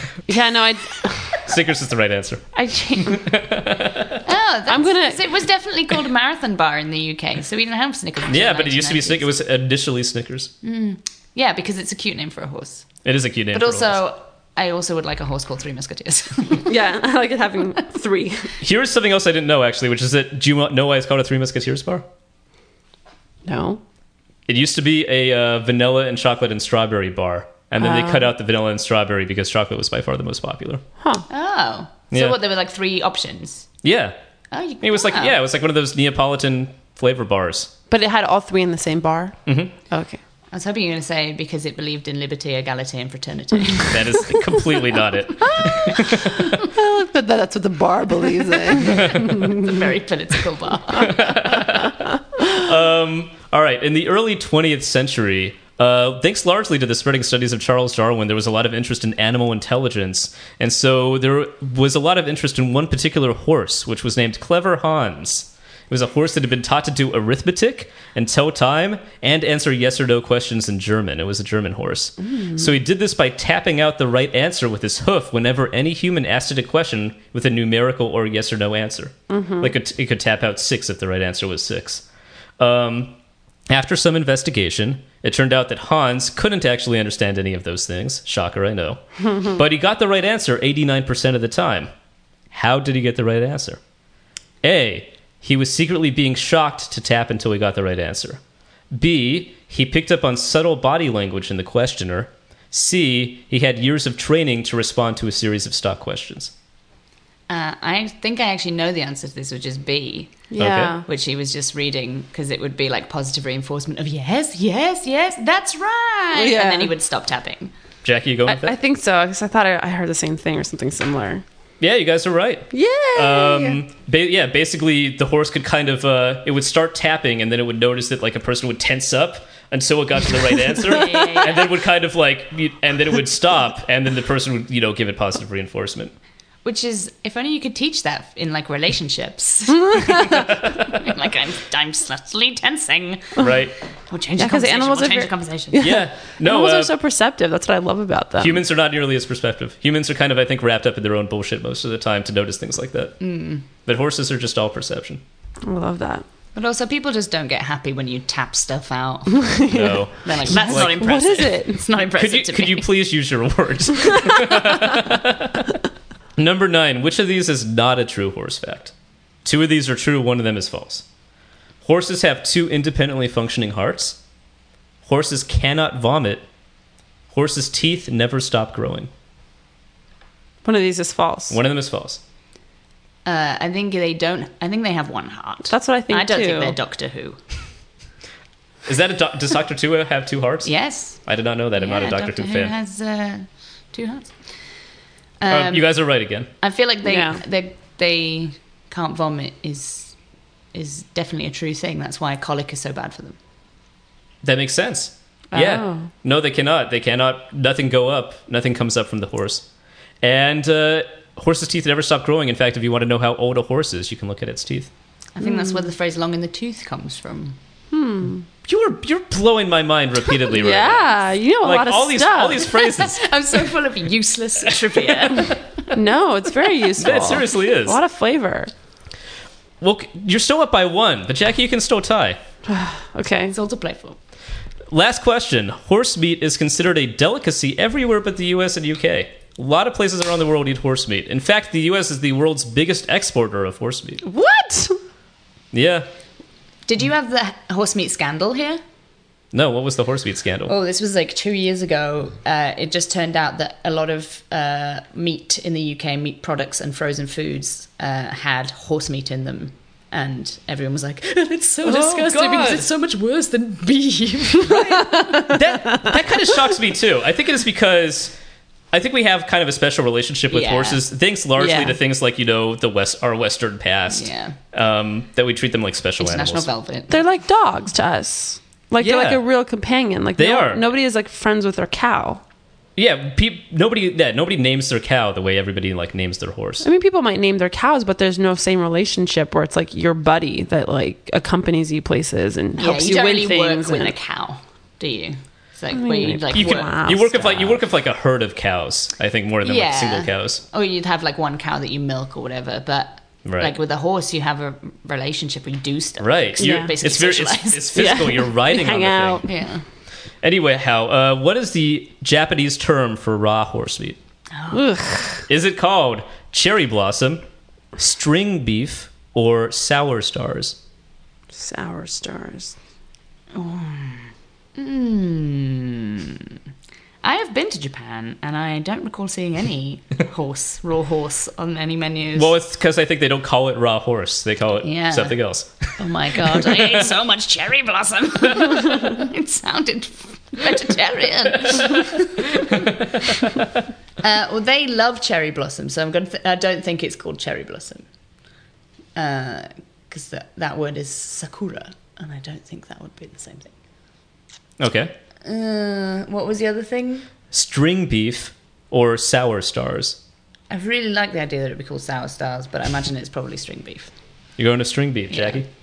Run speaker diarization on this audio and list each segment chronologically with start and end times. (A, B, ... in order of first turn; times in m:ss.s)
0:00.3-0:01.4 A
0:01.5-0:02.4 B
0:02.6-0:03.2 A
0:03.0-0:04.2 B
0:04.2-0:09.3 C
0:04.7-0:05.3 A
0:08.3-0:10.5 B
0:10.6-0:12.9 C
0:13.0-0:14.0 B
0:13.5-0:16.7 C
0:16.6-0:18.5 A
0:18.6-0:22.1 B
0:23.5-0:23.8 A
0:24.5-0:30.8 B
0:27.8-0:28.3 A
0:31.0-0:31.2 A
0:31.3-0:33.7 C
0:32.1-0:32.4 B
0:33.8-0:34.2 B
0:34.5-0:35.4 C
0:34.8-0:37.7 B
0:37.9-0:39.4 A
0:39.5-0:39.7 B
0:39.9-0:40.2 A
0:40.5-0:44.3 C
0:43.9-0:46.4 B
0:46.7-0:49.8 A
0:48.9-0:49.2 B
0:49.5-0:51.6 C
0:51.0-1:22.0 B
1:19.3-1:19.7 A
1:22.6-1:23.2 B
1:23.7-1:31.9 B
1:32.5-1:33.8 B
1:34.6-1:38.4 B
1:38.9-1:46.5 B
1:47.5-1:50.5 C
1:50.5-1:51.0 A
1:50.6-1:51.0 B
1:51.1-1:57.7 C
1:56.3-1:56.9 A
1:58.0-1:58.8 B
1:58.5-2:01.4 A
2:01.8-2:16.1 B
2:02.7-2:03.8 A
2:10.8-2:11.8 C
2:16.6-2:23.5 C
2:23.4-2:23.8 B
2:24.1-2:25.8 C
2:24.4-2:28.6 A
2:25.8-2:26.9 B
2:28.4-2:33.2 B
2:33.2-2:33.6 C
2:33.8-2:35.2 B
2:35.6-2:36.2 A
2:36.6-2:42.9 C
2:39.7-2:41.1 B
2:39.7-2:41.8 A
2:42.2-2:45.6 B
2:46.4-2:48.9 B
2:49.4-2:51.0 B
2:51.8-2:54.2 B
2:55.0-2:56.4 B
2:57.3-2:59.1 B
3:00.6-3:01.6 A
3:01.5-3:02.2 B
3:03.2-3:07.4 C
3:05.7-3:06.8 A
3:08.9-3:12.7 B
3:10.6-3:11.2 C
3:11.8-3:14.5 C
3:15.4-3:16.1 C
3:15.5-3:16.5 B
3:16.6-3:20.2 C
3:17.0-3:17.4 A
3:20.7-3:23.4 C
3:24.4-3:29.6 B
3:25.5-3:26.1 A
3:30.2-3:34.9 B
3:35.4-3:37.6 C
3:37.9-3:38.4 A
3:38.6-3:43.2 B
3:40.5-3:42.7 A
3:42.8-3:45.6 C
3:45.9-3:48.7 A
3:47.0-3:48.0 B
3:49.8-3:52.4 B
3:52.7-3:53.5 A
3:53.5-3:54.2 C
3:54.9-4:04.2 B
4:04.2-4:05.0 A
4:05.7-4:06.1 B
4:06.9-4:08.8 C
4:09.5-4:10.7 B
4:10.7-4:25.1 C
4:21.8-4:22.9 B
4:24.6-4:28.4 B
4:28.9-4:36.7 B
4:30.5-4:31.0 C
4:31.6-4:32.0 A
4:34.1-4:34.6 C
4:36.2-4:37.2 C
4:37.1-4:42.4 A
4:39.0-4:39.4 B
4:40.4-4:40.8 B
4:43.0-4:46.9 B
4:46.8-4:54.2 A
4:52.8-4:56.9 C
4:55.9-4:57.8 A
4:56.5-5:00.6 B
4:59.6-5:08.0 C
5:03.4-5:03.8 B
5:06.2-5:09.4 B
5:06.6-5:06.9 A
5:08.0-5:09.6 A
5:09.4-5:09.8 C
5:10.4-5:14.2 B
5:14.6-5:14.8 C
5:14.7-5:15.4 A
5:15.5-5:17.4 B
5:18.0-5:20.8 B
5:21.5-5:22.8 A
5:23.5-5:26.6 C
5:27.2-5:32.5 C
5:32.4-5:36.0 B
5:34.8-5:35.4 C
5:36.0-5:42.9 C
5:36.8-5:37.0 B
5:44.2-5:48.0 C
5:49.2-5:53.7 C
5:54.8-5:55.1 B
5:55.4-5:57.3 C
5:57.5-6:00.2 B
6:00.7-6:04.1 C
6:04.6-6:05.7 B
6:05.3-6:05.6 C